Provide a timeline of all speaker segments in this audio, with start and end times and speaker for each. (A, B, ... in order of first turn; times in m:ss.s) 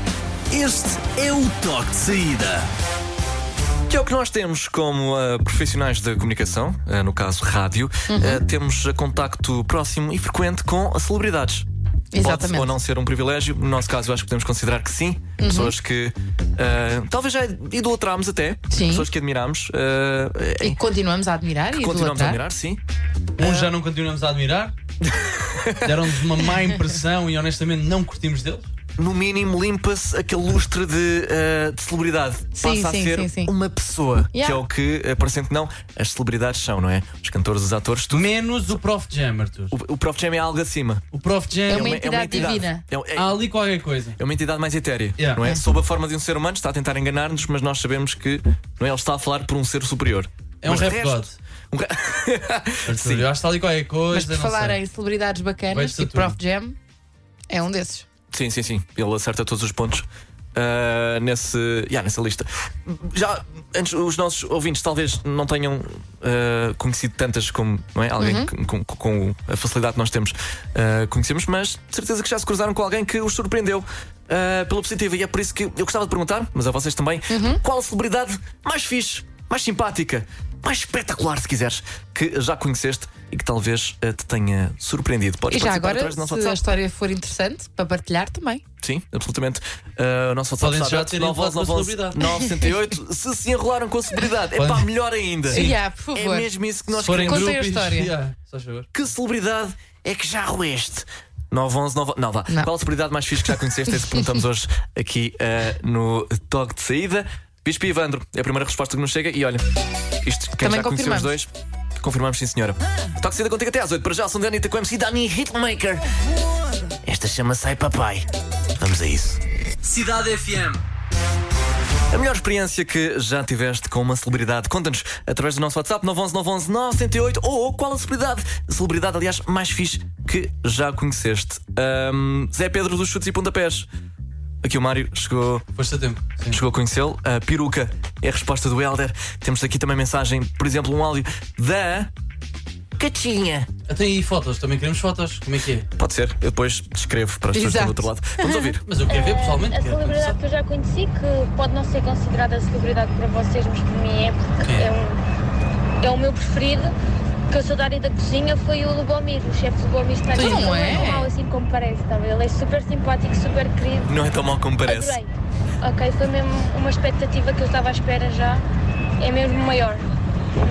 0:00.5-0:02.7 A
0:03.9-0:20.8 B
0:08.1-0:08.4 C
0:12.1-0:12.7 C
0:15.4-0:15.7 C
0:18.7-0:19.1 C
0:20.6-0:22.4 C
0:21.7-0:22.8 B
0:23.4-0:24.8 D
0:25.0-0:26.0 B
0:25.8-0:28.7 D
0:29.0-0:38.2 B
0:32.6-0:33.5 C
0:34.3-0:34.6 C
0:38.1-0:39.8 D
0:39.7-0:41.0 B
0:41.1-0:42.6 D
0:41.7-0:42.8 C
0:41.7-0:43.4 B
0:43.1-0:44.2 D
0:44.2-0:53.3 B
0:50.6-0:51.4 D
0:52.9-0:54.8 D
0:54.1-0:56.8 C
0:55.7-0:56.4 D
0:57.5-0:58.1 C
0:58.3-1:26.6 B
1:08.2-1:08.5 C
1:17.3-1:17.6 C
1:25.5-1:28.6 C
1:28.8-1:37.6 B
1:30.6-1:32.2 D
1:34.6-1:34.9 D
1:35.5-1:35.8 D
1:35.5-1:36.5 C
1:37.0-1:38.9 D
1:37.1-1:38.1 C
1:38.9-1:49.6 B
1:43.5-1:44.2 C
1:50.2-1:51.5 B
1:50.6-1:51.3 C
1:52.0-1:56.1 B
1:57.0-1:59.4 B
1:59.8-2:00.8 D
2:02.1-2:13.9 B
2:14.6-2:15.7 B
2:15.8-2:16.6 D
2:16.5-2:22.1 B
2:23.0-2:23.7 B
2:23.9-2:25.9 D
2:26.0-2:28.8 B
2:27.5-2:28.8 C
2:28.8-2:30.4 D
2:29.1-2:35.2 E
2:34.6-2:34.9 D
2:36.0-2:36.9 E
2:37.5-2:44.2 E
2:40.3-2:41.3 C
2:44.1-2:45.2 B
2:44.8-2:45.3 E
2:45.8-2:48.6 E
2:49.2-2:50.0 E